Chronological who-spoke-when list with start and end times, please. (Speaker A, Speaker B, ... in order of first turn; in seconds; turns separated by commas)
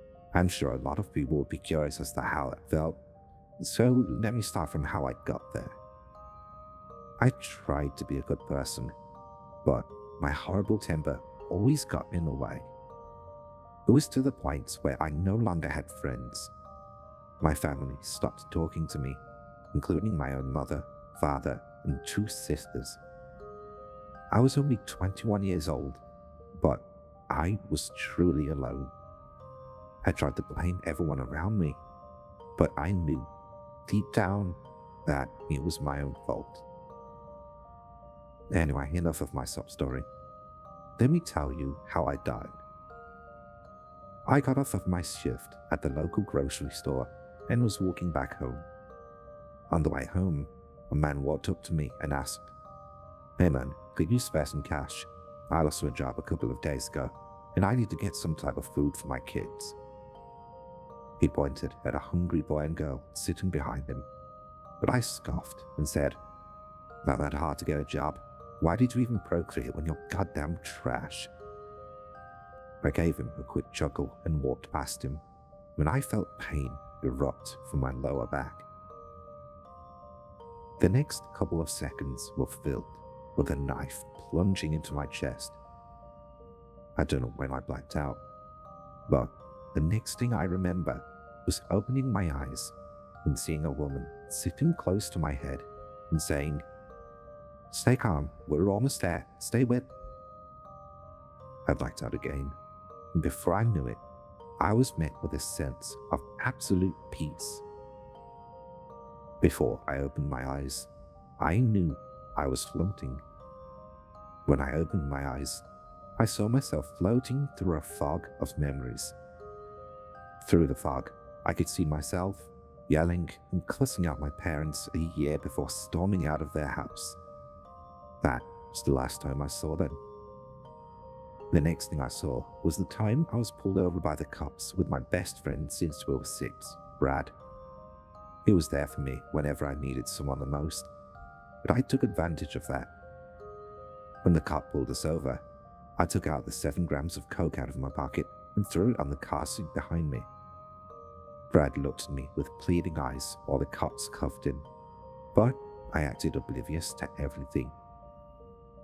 Speaker A: 0.3-3.0, Speaker A: 3.6-5.8, Speaker A: 7.2-8.9, Speaker A: 9.6-12.7, Speaker A: 13.8-16.5, Speaker A: 17.4-19.2, Speaker A: 19.7-23.0, Speaker A: 24.3-26.0, Speaker A: 26.6-28.9, Speaker A: 30.0-31.8, Speaker A: 32.6-33.3, Speaker A: 33.9-36.6, Speaker A: 38.5-40.1, Speaker A: 41.0-42.6, Speaker A: 44.2-48.7, Speaker A: 49.7-52.5, Speaker A: 53.4-59.8, Speaker A: 61.2-64.1, Speaker A: 64.8-66.2, Speaker A: 67.0-71.3, Speaker A: 72.8-75.2, Speaker A: 75.8-78.7, Speaker A: 80.8-85.6, Speaker A: 87.0-88.2, Speaker A: 89.1-96.6, Speaker A: 97.7-99.9, Speaker A: 101.7-102.6, Speaker A: 103.1-104.0, Speaker A: 104.6-107.6, Speaker A: 109.4-113.2, Speaker A: 114.5-115.6, Speaker A: 116.2-119.1, Speaker A: 120.4-127.2, Speaker A: 128.2-130.0, Speaker A: 131.5-137.3, Speaker A: 138.4-140.9, Speaker A: 141.6-142.9, Speaker A: 144.2-145.4, Speaker A: 146.0-150.3, Speaker A: 151.5-154.7, Speaker A: 155.3-157.8